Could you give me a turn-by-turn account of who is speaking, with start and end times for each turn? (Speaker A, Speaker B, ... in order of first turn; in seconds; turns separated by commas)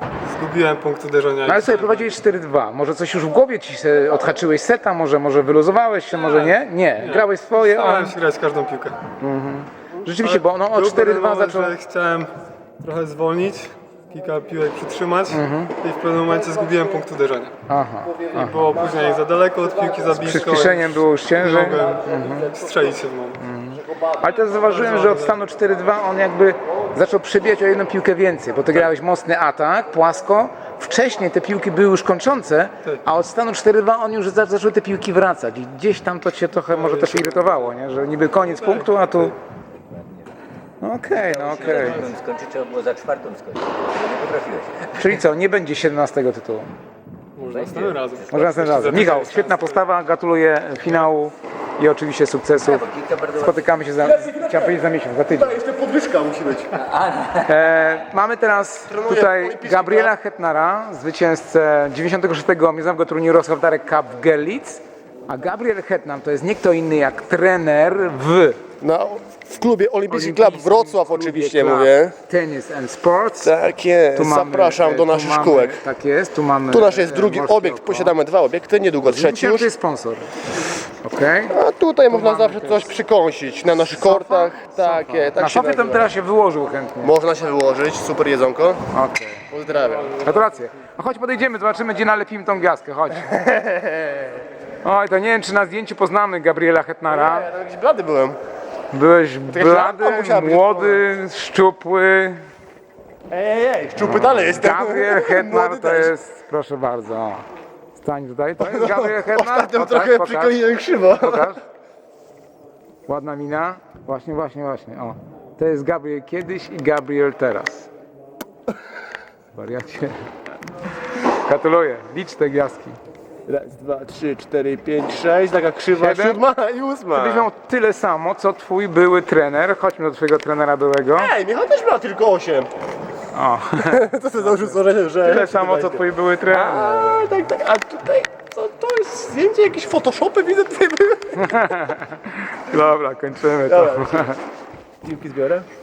Speaker A: 0.2-2.1, Speaker B: 1.4-8.1, Speaker A: 6.1-9.0, Speaker B: 9.2-11.7, Speaker A: 10.2-17.5, Speaker B: 15.3-15.7, Speaker B: 17.7-18.7, Speaker A: 18.3-23.4, Speaker B: 20.2-22.6, Speaker B: 23.4-39.4, Speaker A: 24.6-25.4, Speaker A: 36.7-37.7, Speaker A: 38.4-38.9, Speaker B: 40.8-42.1, Speaker C: 41.1-45.1, Speaker A: 41.6-42.1, Speaker B: 44.9-46.7, Speaker A: 47.4-49.8, Speaker C: 47.5-48.0, Speaker B: 48.3-55.6, Speaker C: 52.6-53.6, Speaker D: 54.1-54.8, Speaker D: 55.3-56.8, Speaker C: 56.9-57.5, Speaker B: 57.4-68.6, Speaker D: 58.9-60.1, Speaker D: 68.8-72.2, Speaker B: 70.1-73.5, Speaker D: 73.4-75.8, Speaker B: 74.1-78.1, Speaker D: 76.7-79.7, Speaker B: 79.0-80.4, Speaker B: 81.0-81.5, Speaker D: 81.5-86.1, Speaker B: 82.1-82.8, Speaker B: 84.0-87.1, Speaker D: 87.0-88.9, Speaker B: 88.9-89.4, Speaker D: 89.5-90.2, Speaker B: 90.1-93.3, Speaker D: 93.2-94.3, Speaker B: 94.8-97.5, Speaker D: 97.1-98.4, Speaker B: 98.9-102.4, Speaker D: 99.5-101.0, Speaker D: 103.3-106.1, Speaker B: 104.0-110.6, Speaker D: 108.6-111.5, Speaker B: 111.2-111.6, Speaker B: 113.0-117.9, Speaker B: 119.5-120.2, Speaker B: 121.3-123.0, Speaker D: 123.5-127.5, Speaker B: 126.0-126.4, Speaker B: 127.1-131.3, Speaker D: 131.1-132.7, Speaker B: 133.3-134.1, Speaker D: 133.8-141.9, Speaker B: 135.2-137.0, Speaker B: 141.3-144.4, Speaker D: 143.7-144.3, Speaker D: 145.0-145.7